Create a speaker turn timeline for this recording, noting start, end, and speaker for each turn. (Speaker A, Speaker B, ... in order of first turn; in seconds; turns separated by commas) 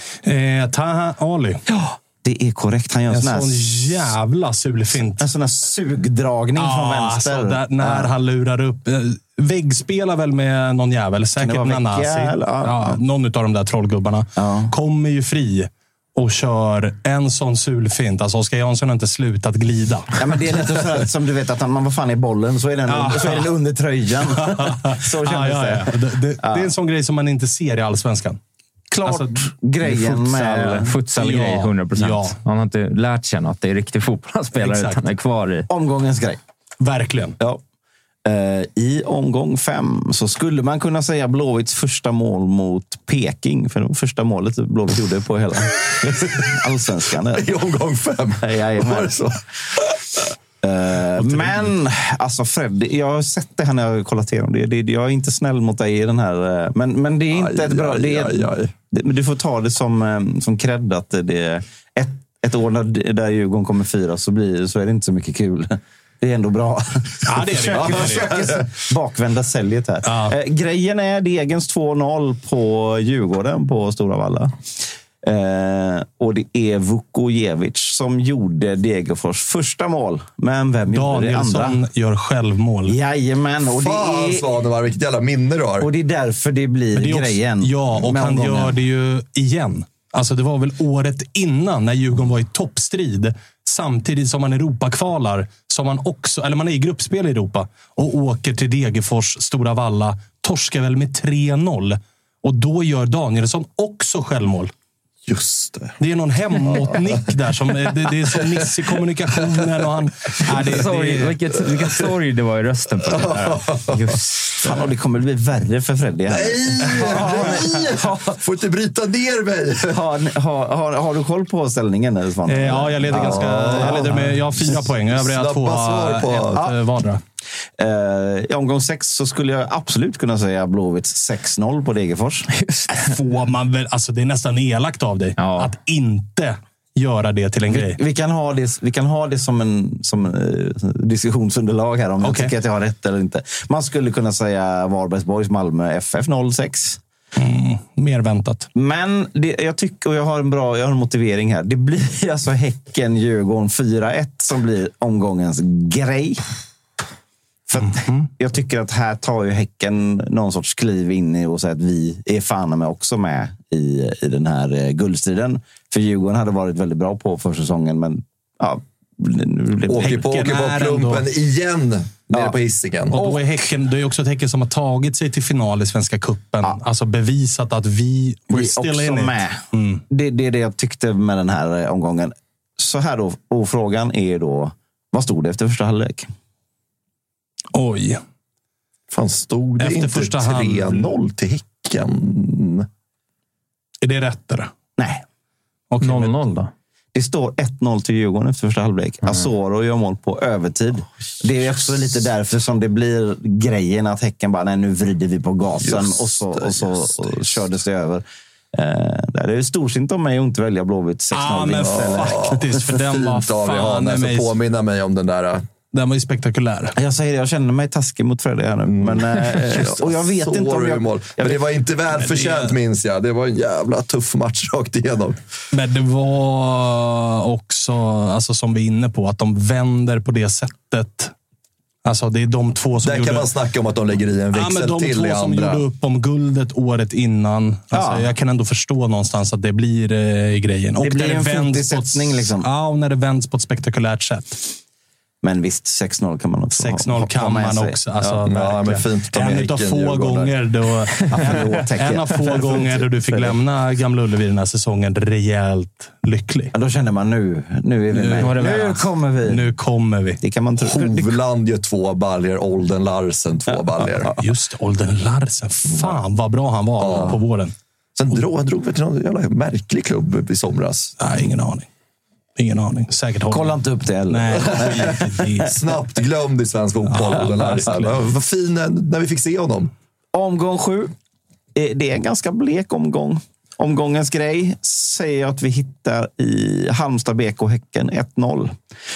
Speaker A: 0.2-1.6, Speaker B: 1.7-3.7, Speaker A: 3.1-5.3, Speaker B: 5.2-8.1, Speaker A: 6.6-20.2, Speaker B: 11.4-13.0, Speaker B: 14.4-14.7, Speaker B: 20.2-26.7, Speaker A: 22.9-23.5, Speaker A: 24.4-28.4, Speaker B: 28.9-30.9, Speaker A: 29.1-30.3, Speaker C: 30.4-35.7, Speaker A: 31.1-32.4, Speaker A: 34.6-35.0, Speaker B: 35.7-36.4, Speaker A: 36.8-37.4, Speaker B: 38.2-47.5, Speaker D: 46.0-46.5, Speaker D: 47.3-50.3, Speaker B: 48.4-49.2, Speaker B: 50.6-74.5, Speaker A: 51.2-51.7, Speaker D: 57.3-58.7, Speaker A: 67.2-68.3, Speaker D: 67.7-68.7, Speaker A: 70.0-70.3, Speaker B: 75.2-81.8, Speaker A: 80.9-83.0, Speaker B: 82.9-84.5, Speaker D: 83.7-85.9, Speaker B: 85.8-88.8, Speaker A: 87.0-104.7, Speaker D: 105.3-106.0, Speaker A: 106.0-111.3, Speaker D: 106.6-107.3, Speaker D: 108.3-108.7, Speaker C: 110.7-114.2, Speaker D: 111.8-112.0, Speaker D: 113.1-114.0, Speaker B: 113.9-118.4, Speaker D: 116.3-120.0, Speaker A: 117.0-117.5, Speaker B: 119.8-124.7, Speaker A: 122.5-127.2, Speaker D: 123.1-126.6, Speaker B: 127.8-132.5, Speaker A: 132.9-138.0, Speaker C: 135.4-135.7, Speaker B: 137.7-147.0, Speaker A: 142.2-142.5, Speaker A: 147.4-148.7, Speaker B: 148.8-156.4, Speaker B: 157.7-170.2, Speaker A: 157.8-158.3, Speaker D: 169.9-173.2, Speaker A: 170.0-171.3, Speaker A: 173.1-180.0, Speaker B: 173.2-173.4, Speaker B: 178.5-186.3, Speaker A: 187.7-188.2, Speaker D: 189.1-192.9, Speaker A: 189.8-191.1, Speaker A: 194.0-194.7, Speaker B: 195.0-195.2, Speaker A: 195.9-196.5, Speaker C: 196.0-196.7, Speaker B: 197.1-212.7, Speaker D: 205.8-207.4, Speaker A: 211.3-214.5, Speaker D: 211.8-215.7, Speaker A: 215.9-217.0, Speaker B: 217.0-221.7, Speaker D: 218.9-225.4, Speaker A: 222.1-222.8, Speaker A: 225.7-231.3, Speaker A: 232.1-233.5, Speaker D: 233.0-235.8, Speaker A: 234.5-244.7, Speaker B: 237.9-238.3, Speaker B: 241.0-242.7, Speaker B: 245.4-248.4, Speaker A: 246.7-256.7, Speaker D: 248.5-250.5, Speaker B: 251.3-253.6, Speaker B: 256.7-259.7, Speaker A: 258.1-260.4, Speaker C: 258.4-259.0, Speaker B: 260.4-261.4, Speaker D: 260.8-264.3, Speaker B: 263.7-264.4, Speaker A: 264.3-267.7, Speaker D: 267.0-267.4, Speaker D: 268.2-271.1, Speaker A: 271.2-271.9, Speaker A: 272.6-273.8, Speaker B: 273.5-275.7, Speaker A: 274.3-275.7, Speaker D: 274.7-279.9, Speaker A: 277.1-278.2, Speaker B: 280.3-281.1, Speaker B: 281.8-288.8